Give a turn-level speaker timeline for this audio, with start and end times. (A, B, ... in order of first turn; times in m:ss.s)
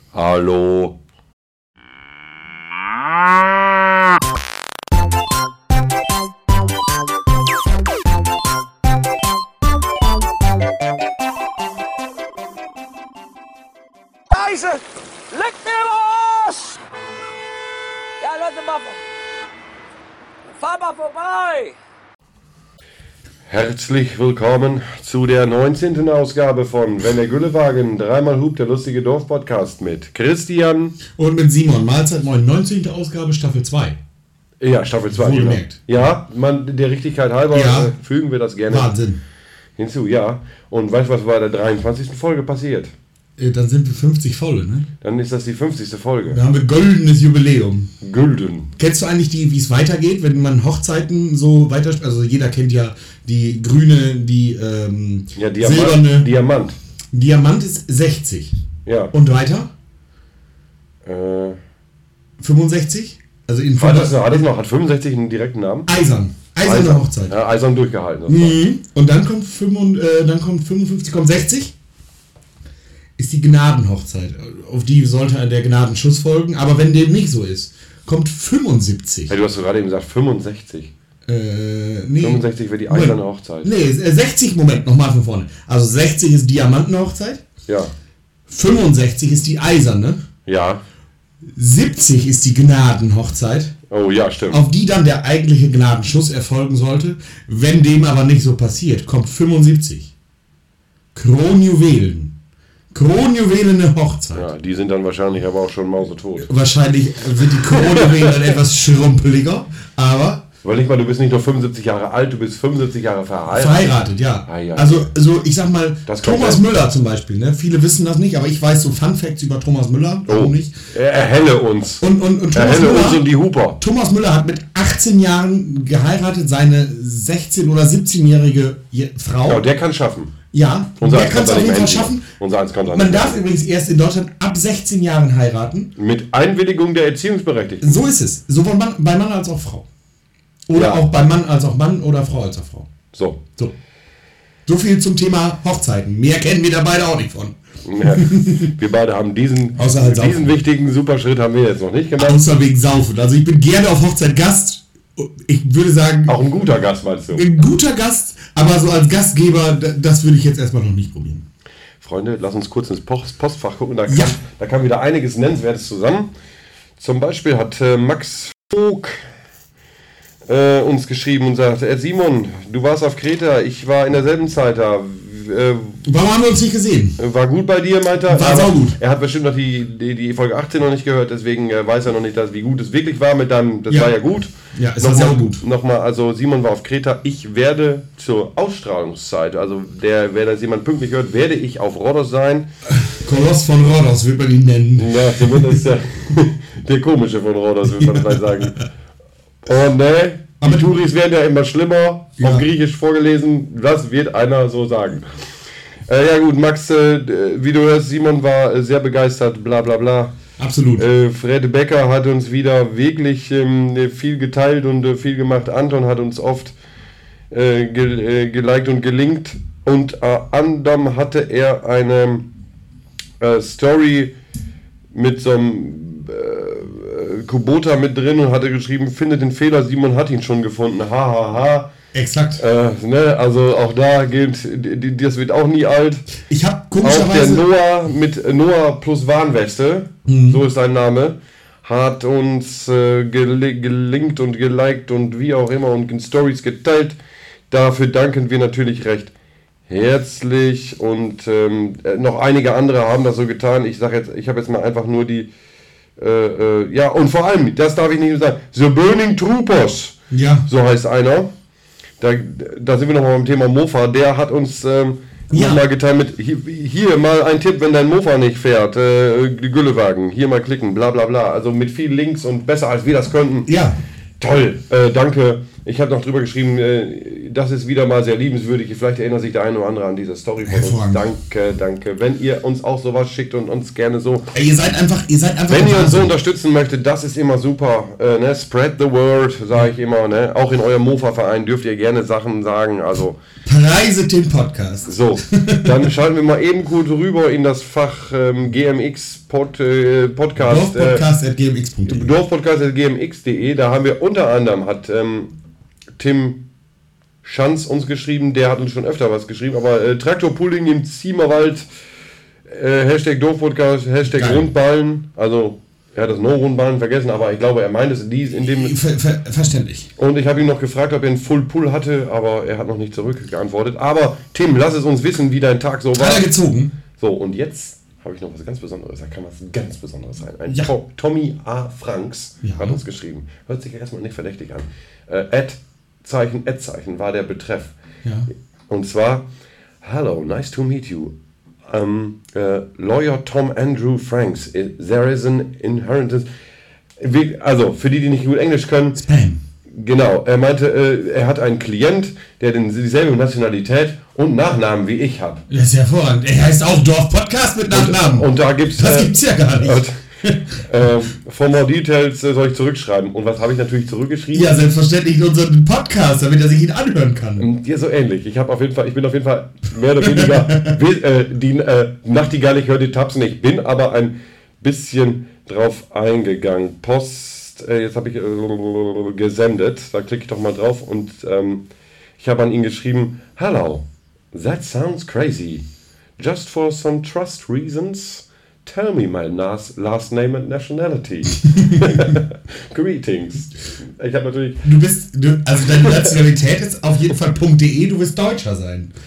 0:00.1-0:01.0 A
0:14.3-0:16.8 B
0:18.2-0:19.0 B
0:20.6-0:21.8 B
0:23.5-0:31.0 A
0:31.2-0:34.0 C
0:34.6-0:38.9 A
0:35.1-0:36.0 C
0:37.5-0:37.9 C
0:38.7-0:39.2 C
0:39.8-0:42.9 A
0:43.4-0:44.9 C
0:45.0-0:46.4 A
0:46.3-0:47.9 C
0:48.0-0:48.7 A
0:48.8-0:56.3 C
0:55.4-0:56.8 A
0:57.1-0:58.5 C
0:58.9-0:59.1 A
0:59.1-0:59.7 C
1:01.1-1:01.6 A
1:02.4-1:04.4 C
1:03.8-1:05.9 A
1:05.9-1:07.3 C
1:06.6-1:08.6 A
1:08.3-1:11.7 C
1:13.2-1:19.3 C
1:19.3-1:20.9 A
1:21.3-1:27.4 C
1:22.2-1:23.7 A
1:27.7-1:27.9 A
1:28.5-1:30.2 C
1:30.5-1:30.8 A
1:31.6-1:33.7 C
1:33.9-1:34.6 A
1:34.5-1:40.1 C
1:41.2-1:42.3 C
1:42.9-1:44.5 C
1:44.3-1:46.5 A
1:46.4-1:50.4 C
1:47.7-1:48.5 A
1:50.6-1:53.9 A
1:53.5-2:00.7 C
1:54.5-1:55.1 A
1:56.1-1:56.6 A
2:00.3-2:03.8 A
2:02.0-2:03.2 C
2:03.8-2:09.7 C
2:09.5-2:10.3 A
2:10.5-2:12.3 C
2:11.0-2:13.4 A
2:12.9-2:15.9 C
2:16.0-2:18.0 A
2:17.8-2:19.9 C
2:20.7-2:22.9 C
2:20.7-2:21.1 A
2:23.1-2:23.4 A
2:24.7-2:28.7 C
2:27.9-2:32.4 A
2:29.8-2:30.6 C
2:32.2-2:36.4 C
2:36.3-2:37.4 A
2:37.3-2:41.4 C
2:42.0-2:46.3 A
2:44.1-2:44.4 C
2:47.0-2:49.2 A
2:50.5-2:56.0 A
2:56.0-2:57.2 C
2:57.2-3:12.7 A
2:58.3-2:59.0 C
3:03.9-3:05.6 C
3:13.0-3:15.9 C
3:15.0-3:18.8 A
3:18.0-3:18.7 C
3:19.6-3:25.3 A
3:20.6-3:20.9 C
3:22.4-3:22.7 C
3:26.1-3:30.4 A
3:30.6-3:31.0 C
3:31.0-3:36.8 A
3:37.5-3:42.5 A
3:43.4-3:44.3 A
3:45.1-3:51.9 A
3:52.1-3:52.6 C
3:52.6-3:56.3 A
3:56.4-3:57.7 C
3:57.0-4:07.2 A
4:00.3-4:00.6 C
4:07.7-4:09.3 A
4:09.9-4:15.5 A
4:16.2-4:20.2 A
4:20.3-4:20.7 C
4:20.7-4:21.5 A
4:22.2-4:33.7 A
4:25.5-4:25.8 C
4:33.7-4:34.0 C
4:34.4-4:44.5 A
4:40.6-4:41.2 C
4:44.5-4:46.3 C
4:45.7-4:53.4 A
4:53.6-4:56.1 C
4:55.0-5:01.2 A
5:00.6-5:02.3 C
5:02.1-5:05.5 A
5:06.2-5:06.6 A
5:07.4-5:11.9 A
5:12.7-5:19.0 A
5:14.2-5:14.7 C
5:18.6-5:20.1 C
5:20.2-5:26.5 A
5:26.1-5:26.9 C
5:27.2-5:38.0 A
5:30.7-5:30.9 C
5:32.6-5:33.0 C
5:38.9-5:39.5 A
5:40.0-5:41.4 A
5:41.9-5:46.5 A
5:47.2-5:49.2 A
5:49.2-5:49.6 C
5:50.0-5:55.6 A
5:55.7-6:00.8 C
5:57.9-6:00.2 A
6:00.8-6:04.7 A
6:04.5-6:07.7 C
6:07.6-6:21.8 A
6:10.2-6:11.0 C
6:22.4-6:25.8 A
6:26.4-6:34.9 A
6:31.6-6:32.3 C
6:34.8-6:39.1 C
6:36.0-6:36.3 A